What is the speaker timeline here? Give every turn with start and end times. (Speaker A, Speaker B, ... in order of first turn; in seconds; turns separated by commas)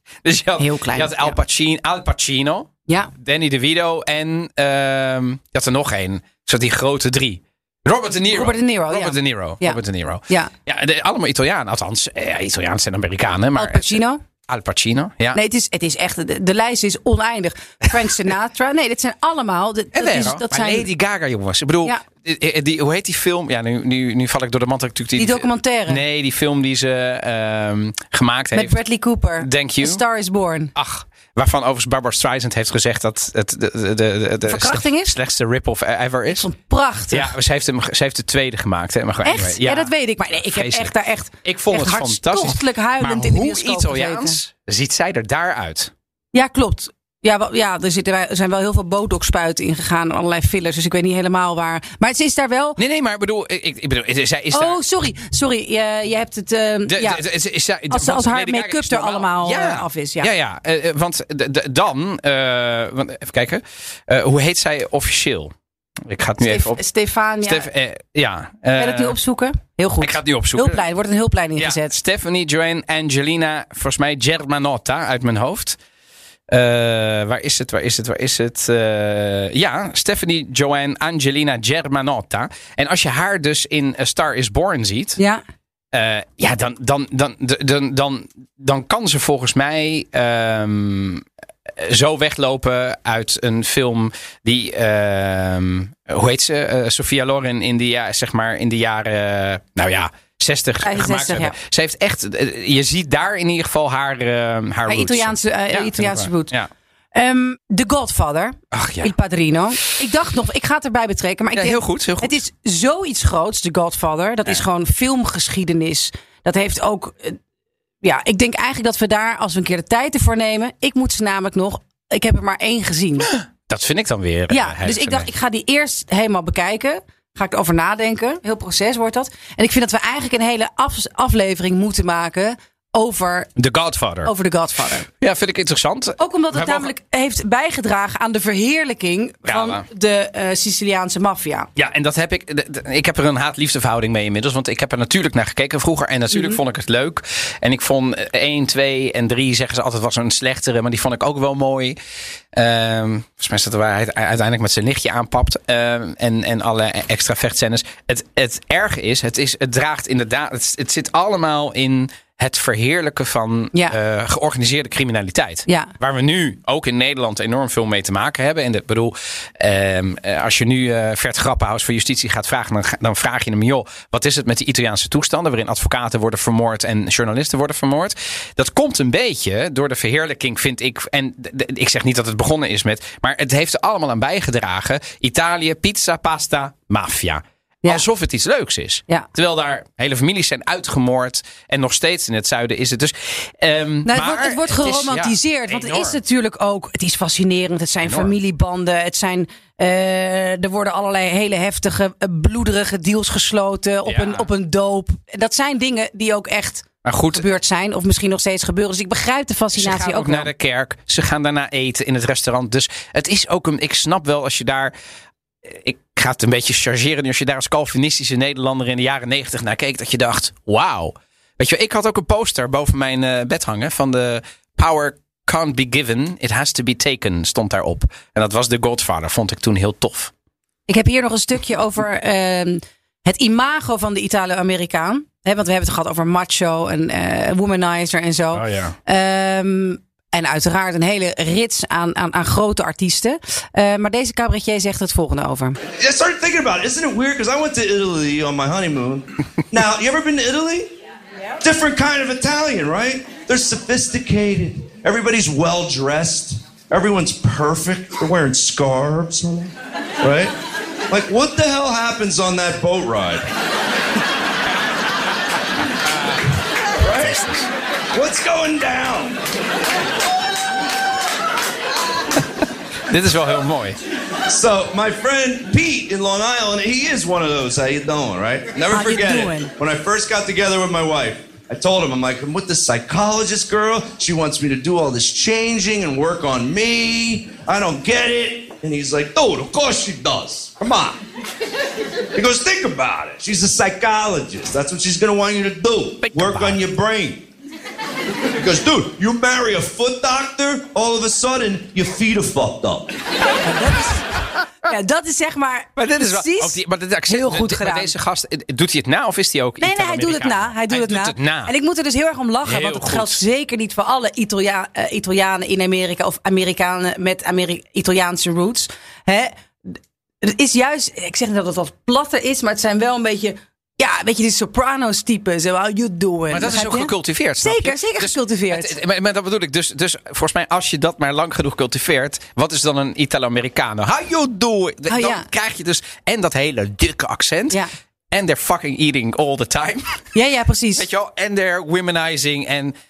Speaker A: 0.2-15.4, Speaker B: 0.6-1.4, Speaker B: 8.3-10.5, Speaker B: 13.6-14.2, Speaker B: 15.3-20.9, Speaker A: 19.9-28.8, Speaker B: 25.1-26.0, Speaker B: 28.5-30.7, Speaker A: 29.4-30.0, Speaker A: 30.7-36.5, Speaker B: 34.4-35.1, Speaker B: 36.3-37.3, Speaker A: 37.1-45.9, Speaker B: 39.2-44.4, Speaker B: 46.3-52.8, Speaker A: 52.8-54.8, Speaker B: 54.5-57.2, Speaker A: 56.9-65.5, Speaker B: 57.9-60.3, Speaker A: 66.0-66.8, Speaker B: 66.4-67.7, Speaker A: 67.4-69.2, Speaker B: 68.8-71.9, Speaker A: 70.0-70.8, Speaker A: 71.5-75.8, Speaker A: 76.5-85.2, Speaker A: 85.9-106.7, Speaker B: 100.8-101.5, Speaker B: 104.9-106.5, Speaker B: 107.1-117.4, Speaker A: 108.7-109.1, Speaker A: 111.5-112.4, Speaker B: 118.0-123.3, Speaker A: 123.3-125.3, Speaker B: 124.5-133.5, Speaker A: 133.6-134.3, Speaker B: 134.2-135.1, Speaker A: 135.2-136.9, Speaker B: 136.2-141.7, Speaker A: 139.4-139.8, Speaker A: 141.8-152.0, Speaker B: 146.3-146.6, Speaker A: 152.5-196.2, Speaker B: 165.7-165.9, Speaker B: 194.0-210.5, Speaker A: 198.0-198.3, Speaker A: 204.1-204.5, Speaker A: 207.0-207.4, Speaker A: 209.7-214.9, Speaker A: 215.6-230.3, Speaker B: 230.9-245.8, Speaker A: 238.5-238.9, Speaker C: 245.9-250.9, Speaker C: 251.6-260.5, Speaker C: 261.1-263.5, Speaker A: 266.1-266.4, Speaker C: 267.0-267.4, Speaker A: 267.1-267.7, Speaker C: 268.1-269.4, Speaker A: 273.1-274.0, Speaker C: 274.5-291.2, Speaker B: 278.9-279.7, Speaker C: 292.3-297.5, Speaker A: 296.2-296.9, Speaker C: 298.6-303.1, Speaker B: 303.6-304.2, Speaker B: 304.8-308.1, Speaker A: 305.9-311.7, Speaker B: 309.8-328.9, Speaker A: 312.6-313.4, Speaker A: 326.5-340.2, Speaker B: 335.1-335.5, Speaker B: 340.3-341.1, Speaker A: 340.9-342.9